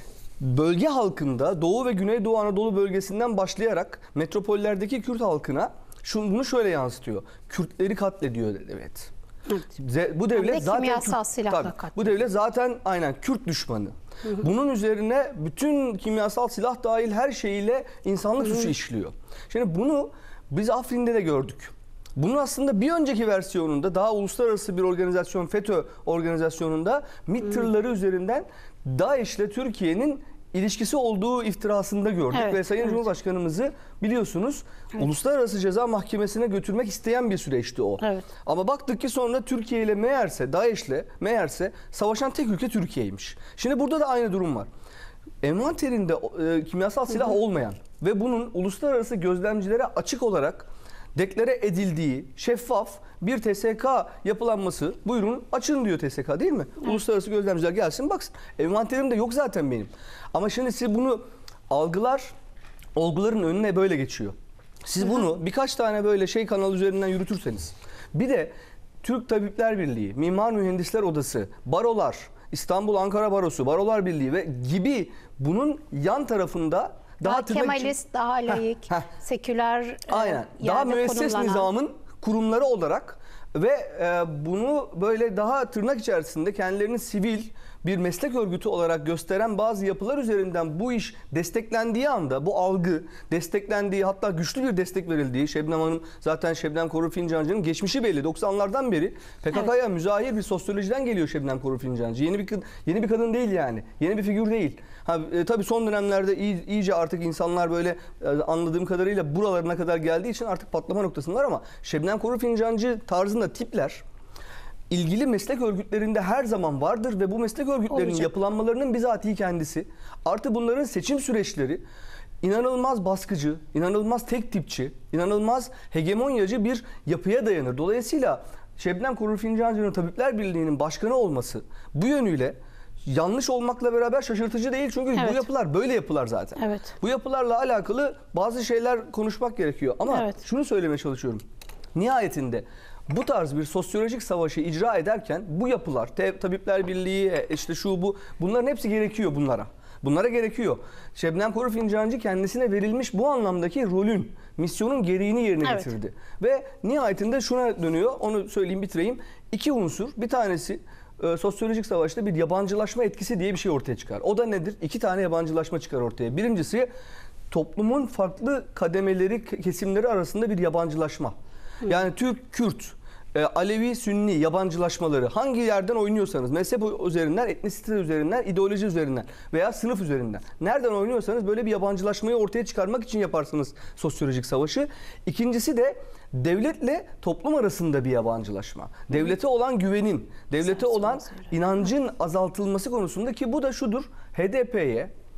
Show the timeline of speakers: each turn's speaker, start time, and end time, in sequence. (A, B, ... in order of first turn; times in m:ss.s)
0:00.4-0:09.1 A
0:09.8-0:44.7 A
0:10.3-0:12.2 B
0:32.3-0:32.6 B
0:45.4-1:02.3 A
1:02.9-1:17.9 A
1:17.2-1:21.7 B
1:18.5-1:19.0 A
1:20.1-1:54.0 A
1:54.9-2:01.8 A
1:57.9-1:58.3 B
2:02.4-2:21.4 A
2:15.2-2:15.4 B
2:16.6-2:16.9 B
2:20.1-2:20.4 B
2:21.9-2:46.9 A
2:47.5-3:15.1 A
3:10.6-3:11.5 B